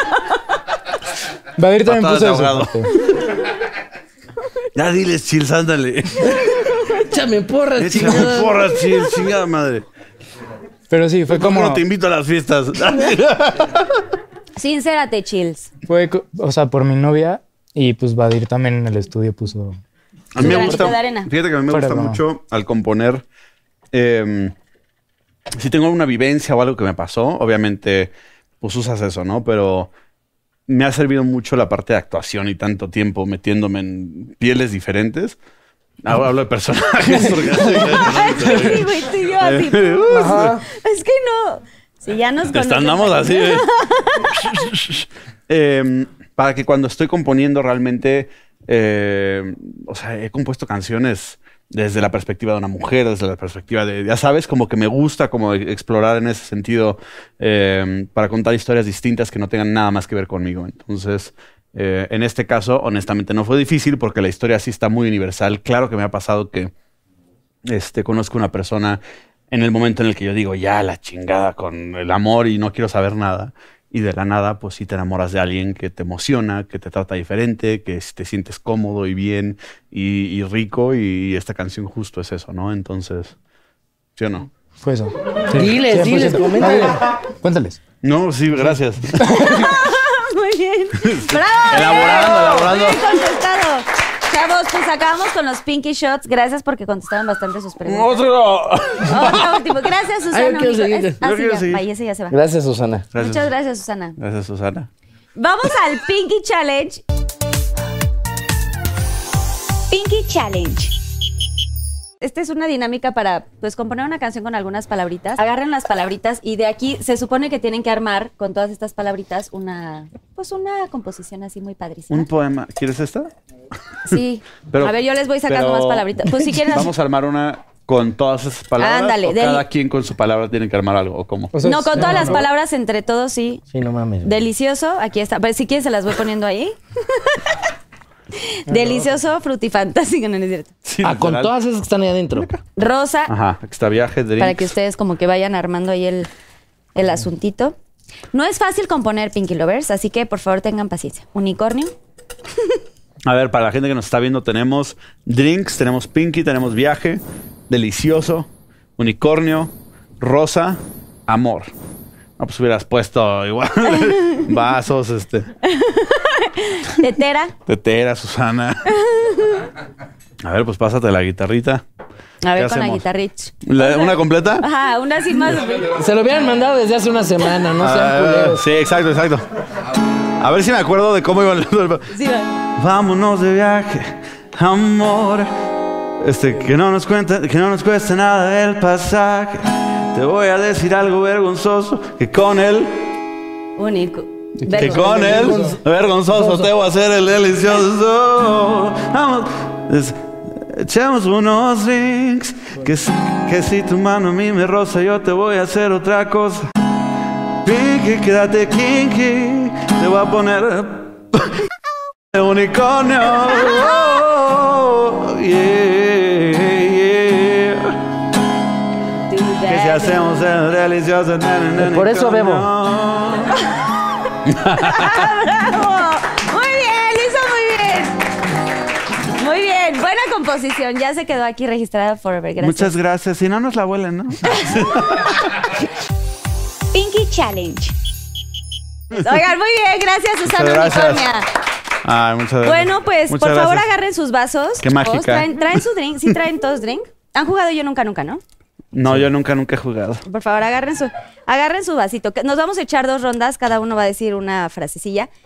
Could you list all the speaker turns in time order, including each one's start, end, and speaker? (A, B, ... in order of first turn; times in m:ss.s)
0:01.6-0:02.9 A
0:01.8-0:03.1 B
0:04.7-0:06.4 B
0:06.6-0:07.0 C
0:07.0-0:08.6 D
0:07.8-0:09.8 B
0:08.0-0:09.2 C
0:10.9-0:11.8 A
0:11.3-0:14.0 B
0:14.6-0:15.7 C
0:15.9-0:19.8 A
0:20.3-0:23.2 B
0:20.4-0:21.3 C
0:20.4-0:20.8 A
0:21.7-0:22.2 A
0:23.9-0:24.5 B
0:25.6-0:29.9 B
0:30.7-0:35.4 B
0:36.0-0:40.6 B
0:37.8-0:44.4 C
0:40.1-0:40.6 D
0:42.5-0:43.7 B
0:44.3-1:06.7 B
1:07.6-1:09.0 B
1:09.5-1:23.3 B
1:24.2-1:24.5 B
1:24.8-1:27.8 A
1:25.5-1:27.0 D
1:28.0-1:29.6 B
1:28.6-1:29.6 A
1:29.4-1:38.1 C
1:31.0-1:33.2 B
1:37.8-1:39.6 B
1:39.0-1:42.4 C
1:40.3-1:41.2 D
1:41.2-1:41.8 B
1:42.3-1:43.1 D
1:43.1-1:43.4 B
1:43.2-1:44.2 C
1:44.2-1:44.9 B
1:45.4-1:47.0 C
1:49.9-1:51.0 C
1:52.2-2:02.3 C
2:02.1-2:03.3 B
2:04.1-2:06.9 C
2:05.5-2:11.6 B
2:08.8-2:09.6 C
2:11.5-2:12.5 A
2:11.6-2:13.6 C
2:13.7-2:14.4 D
2:14.2-2:17.5 C
2:18.4-2:20.7 C
2:18.7-2:19.0 A
2:20.8-2:21.5 B
2:21.0-2:22.5 D
2:22.4-2:22.6 B
2:22.8-2:23.3 C
2:23.3-2:24.7 B
2:24.4-2:26.3 C
2:26.9-2:27.8 C
2:28.3-2:31.9 C
2:33.2-2:41.7 B
2:42.4-2:45.5 B
2:43.9-2:44.4 C
2:45.6-2:47.5 C
2:47.6-2:48.8 B
2:48.9-2:49.6 C
2:50.4-2:51.8 B
2:52.4-2:56.0 C
2:52.6-2:53.0 B
2:53.6-2:54.6 B
2:55.8-2:58.6 D
2:57.8-2:59.4 B
3:00.4-3:02.1 B
3:02.1-3:02.5 C
3:02.8-3:05.5 B
3:06.2-3:12.9 B
3:13.8-3:15.6 C
3:14.7-3:26.7 B
3:14.8-3:15.8 D
3:16.3-3:16.7 D
3:27.6-3:31.5 B
3:32.3-3:38.0 B
3:39.3-3:40.2 C
3:39.7-3:43.6 B
3:41.8-3:42.7 D
3:44.5-3:45.2 B
3:44.8-3:48.2 C
3:49.3-3:52.9 C
3:52.6-3:55.4 B
3:56.9-3:57.9 C
3:59.1-4:01.5 C
4:00.4-4:01.2 B
4:02.0-4:03.8 B
4:02.6-4:08.4 C
4:04.8-4:05.4 B
4:08.9-4:10.2 B
4:10.2-4:15.3 C